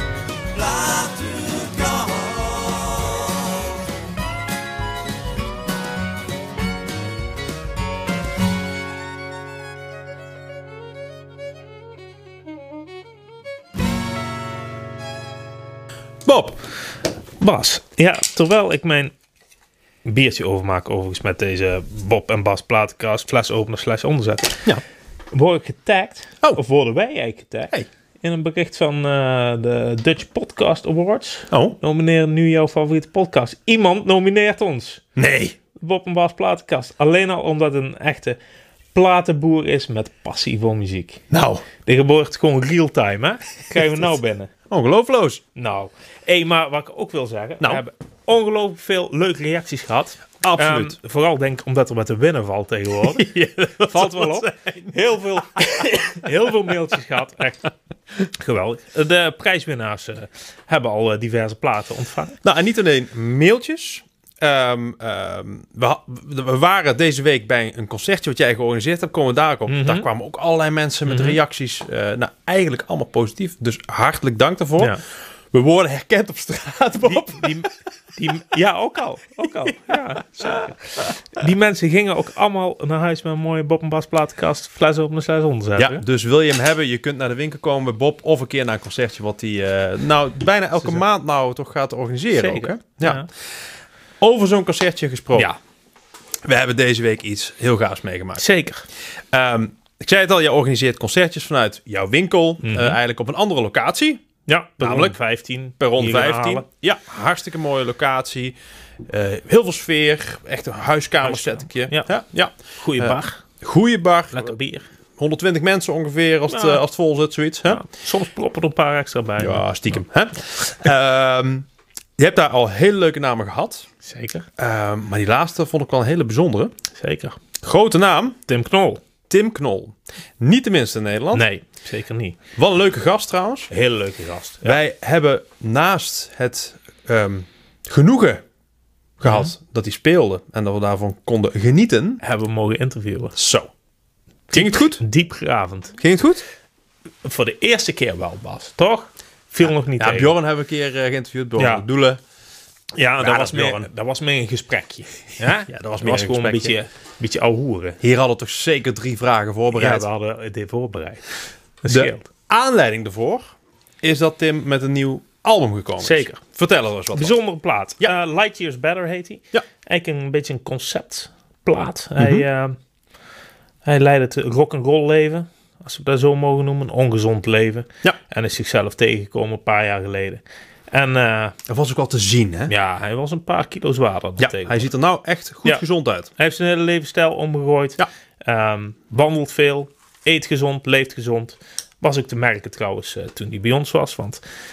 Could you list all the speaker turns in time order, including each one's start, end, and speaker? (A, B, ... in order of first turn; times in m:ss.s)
0:00.6-0:02.9 A
0:16.2-0:16.6 A
0:17.4-0:19.1 B
0:20.0-0:24.8 B
0:25.3-0:35.1 B
0:31.5-0:31.8 A
0:35.2-0:35.6 A
0:35.7-0:38.4 B
0:38.9-0:41.2 B
0:41.3-0:41.7 A
0:41.8-0:44.5 B
0:44.7-0:45.4 A
0:45.6-1:02.4 B
0:50.4-0:51.0 A
0:53.2-0:55.6 A
1:02.4-1:17.7 A
1:09.7-1:10.1 B
1:11.1-1:11.4 B
1:17.0-1:26.0 B
1:25.8-1:33.2 A
1:32.4-1:33.3 B
1:34.2-1:35.5 A
1:36.4-1:38.4 A
1:38.4-1:38.8 B
1:39.2-1:44.2 A
1:42.6-1:43.0 B
1:44.5-1:46.6 B
1:44.8-1:45.2 A
1:45.8-1:54.5 A
1:51.2-1:53.4 B
1:54.3-1:54.8 B
1:55.2-1:57.8 A
1:56.5-1:56.8 B
1:57.7-2:00.0 B
1:59.4-2:01.7 A
2:02.2-2:03.9 A
2:04.0-2:04.4 B
2:04.6-2:06.7 A
2:06.9-2:07.4 B
2:07.6-2:08.4 A
2:08.5-2:09.0 B
2:09.3-2:11.4 A
2:11.3-2:12.4 B
2:12.5-2:13.7 A
2:13.7-2:14.8 B
2:14.6-2:18.4 A
2:19.2-2:22.2 A
2:19.2-2:19.5 B
2:22.2-2:23.4 B
2:23.4-2:23.7 A
2:24.5-2:25.0 A
2:24.5-2:26.0 B
2:26.0-2:26.4 A
2:27.2-2:30.4 B
2:29.6-2:32.2 A
2:31.6-2:31.8 B
2:32.9-2:38.0 B
2:33.2-2:33.9 A
2:35.4-2:36.8 A
2:38.0-2:40.0 A
2:39.7-2:42.2 B
2:41.9-2:47.3 A
2:46.0-2:46.4 B
2:47.1-2:52.8 B
2:52.2-2:52.4 A
2:53.8-3:01.6 B
3:01.7-3:02.7 A
3:02.7-3:04.9 B
3:04.4-3:06.3 A
3:06.4-3:14.4 B